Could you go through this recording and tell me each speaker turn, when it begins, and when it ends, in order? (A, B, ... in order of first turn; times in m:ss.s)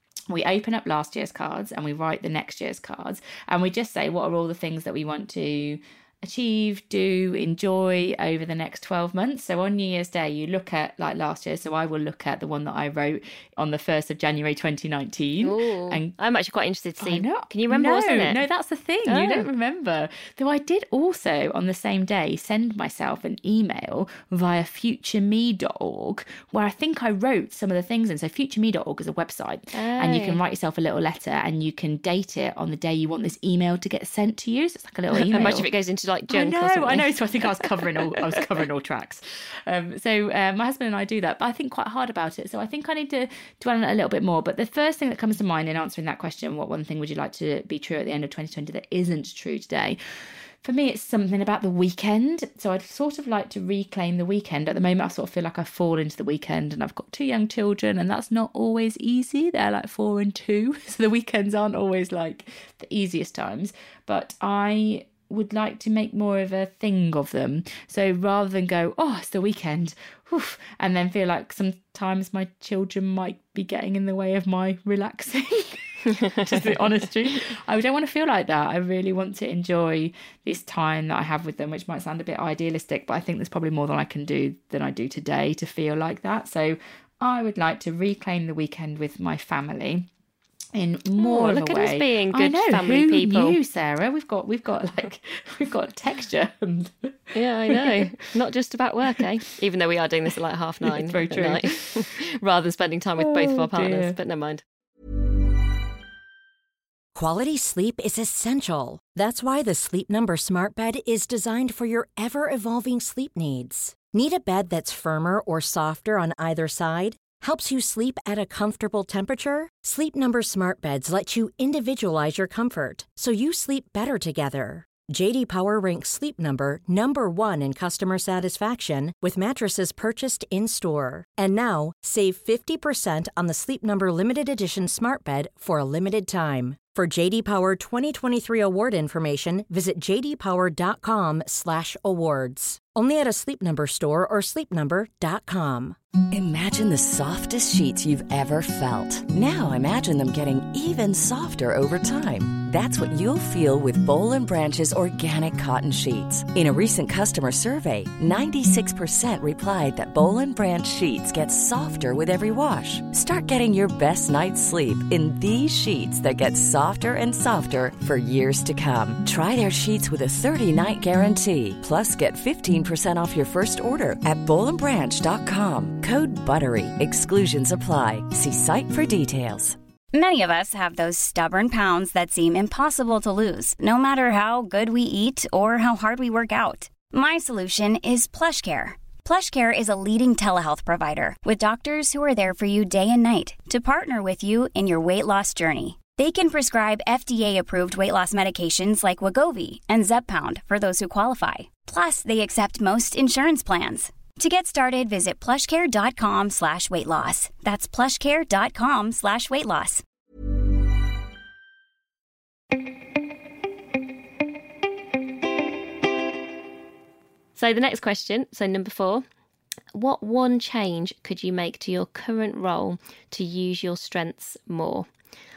0:00.3-0:16.1 A
0:15.4-0:18.4 B
0:17.0-0:35.7 A
0:19.1-0:19.5 B
0:29.7-0:30.4 B
0:35.1-0:37.1 B
0:36.3-0:50.0 A
0:50.6-1:30.1 A
1:16.2-1:16.5 B
1:30.7-1:37.1 A
1:31.2-1:33.6 B
1:37.3-1:44.6 B
1:37.7-1:38.1 A
1:40.8-1:42.1 A
1:43.2-1:44.2 A
1:47.1-2:26.0 C
2:26.3-2:59.8 D
3:00.1-3:30.0 E
3:37.6-3:39.2 B
3:39.9-3:45.1 B